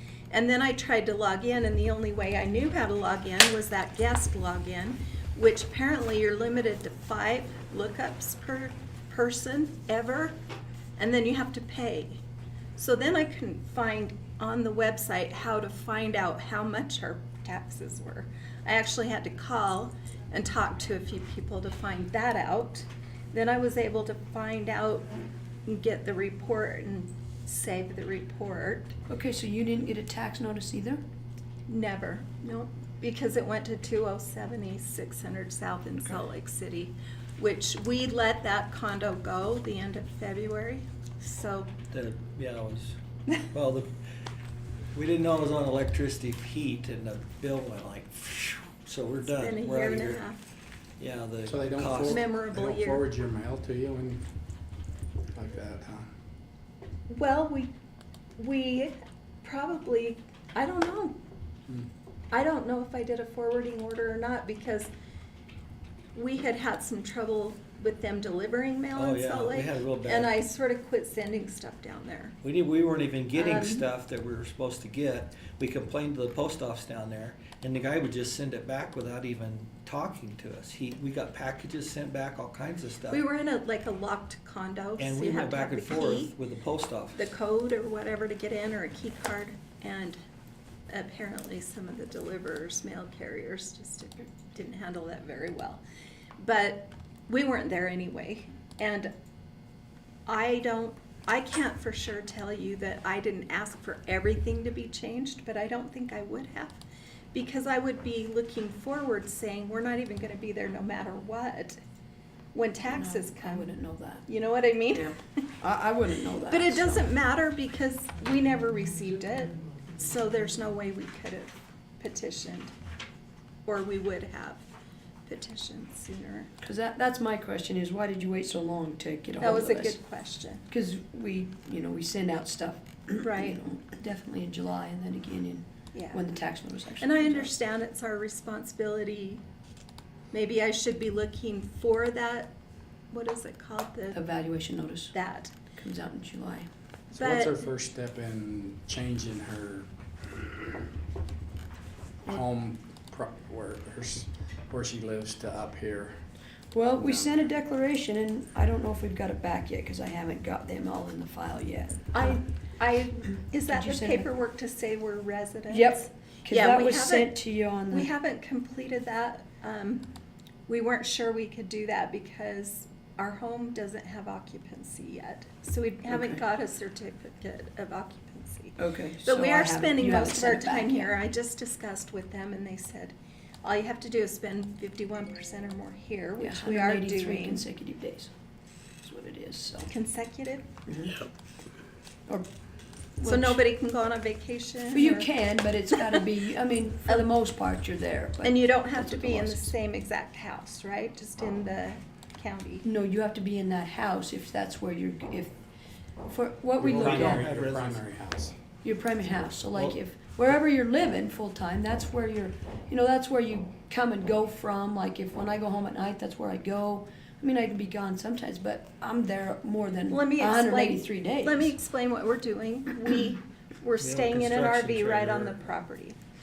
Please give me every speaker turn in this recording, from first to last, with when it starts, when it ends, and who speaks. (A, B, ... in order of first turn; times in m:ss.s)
0:00.3-0:10.4 A
0:11.0-0:12.2 A
0:12.8-0:29.0 A
0:29.1-0:31.0 B
0:31.7-0:41.7 A
0:41.9-0:43.9 C
0:44.9-0:50.2 C
0:49.3-0:50.4 A
0:51.0-0:52.3 C
0:51.4-0:54.2 D
0:52.1-0:53.1 A
0:55.3-0:56.1 D
0:57.1-0:57.7 A
0:58.4-1:01.2 A
1:02.3-1:04.9 A
1:06.1-1:12.4 A
1:08.9-1:10.3 C
1:12.4-1:23.2 C
1:13.4-1:13.8 A
1:23.1-1:26.3 A
1:25.0-1:27.2 C
1:27.2-1:30.2 A
1:30.9-1:35.8 A
1:36.4-1:39.1 A
1:40.3-1:46.8 A
1:47.3-1:51.8 A
1:52.5-1:53.8 A
1:52.9-1:54.3 B
1:54.3-1:55.4 A
1:54.9-1:57.1 B
1:56.5-2:02.7 A
2:03.7-2:04.6 A
2:05.2-2:06.5 A
2:06.6-2:10.0 B
2:09.4-2:10.6 A
2:10.7-2:17.5 B
2:13.2-2:13.6 A
2:15.9-2:16.3 A
2:17.0-2:19.4 A
2:20.3-2:22.6 A
2:23.1-2:24.2 A
2:24.1-2:25.2 B
2:25.1-2:25.5 A
2:25.7-2:26.7 B
2:27.1-2:29.9 D
2:27.2-2:27.7 A
2:32.2-2:36.2 D
2:36.7-2:42.4 B
2:37.0-2:37.5 D
2:42.1-2:50.1 A
2:43.5-2:44.3 B
2:45.7-2:48.1 B
2:50.7-3:07.6 A
2:56.1-2:56.4 B
2:58.8-3:01.2 B
3:06.4-3:08.3 B
3:09.0-3:09.9 B
3:09.9-3:10.7 A
3:10.9-3:11.2 B
3:13.2-3:13.6 B
3:13.2-3:15.3 A
3:14.9-3:19.7 B
3:18.4-3:22.9 A
3:22.8-3:25.5 B
3:26.3-3:27.5 B
3:26.8-3:28.6 D
3:26.8-3:28.0 C
3:28.8-3:41.8 B
3:40.1-3:46.2 A
3:44.0-3:45.6 C